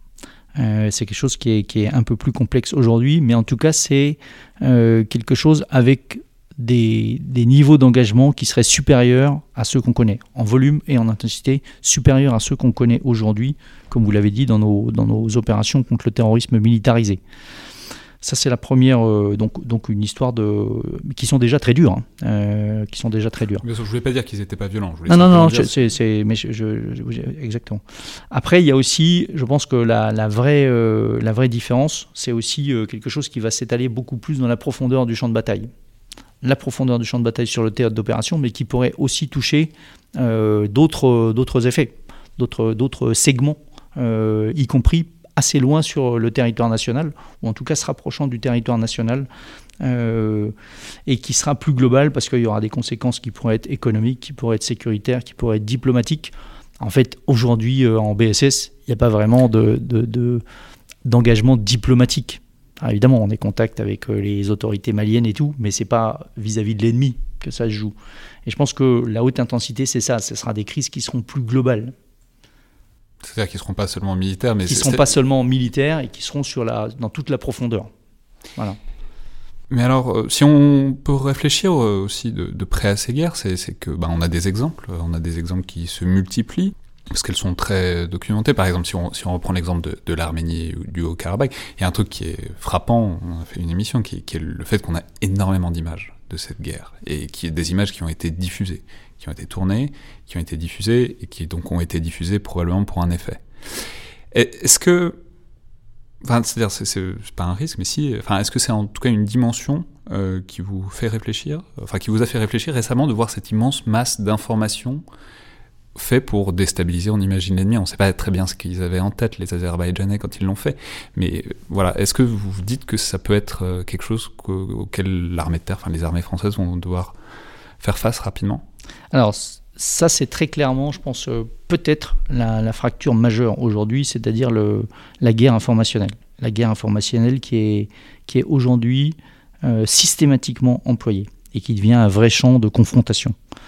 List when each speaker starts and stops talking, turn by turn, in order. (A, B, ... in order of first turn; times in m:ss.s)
0:00.6-0:17.2 A
0:18.2-0:23.6 A
0:23.6-0:25.8 B
0:25.1-0:35.7 A
0:36.4-0:49.3 A
0:49.8-0:50.5 A
0:51.1-1:00.4 A
1:01.0-1:07.9 A
1:08.5-1:11.9 A
1:13.2-1:15.1 B
1:14.7-1:17.9 A
1:19.7-1:43.4 B
1:44.3-1:45.2 B
1:46.2-1:55.0 B
1:56.0-2:07.2 B
2:07.8-2:08.6 B
2:09.1-2:23.4 A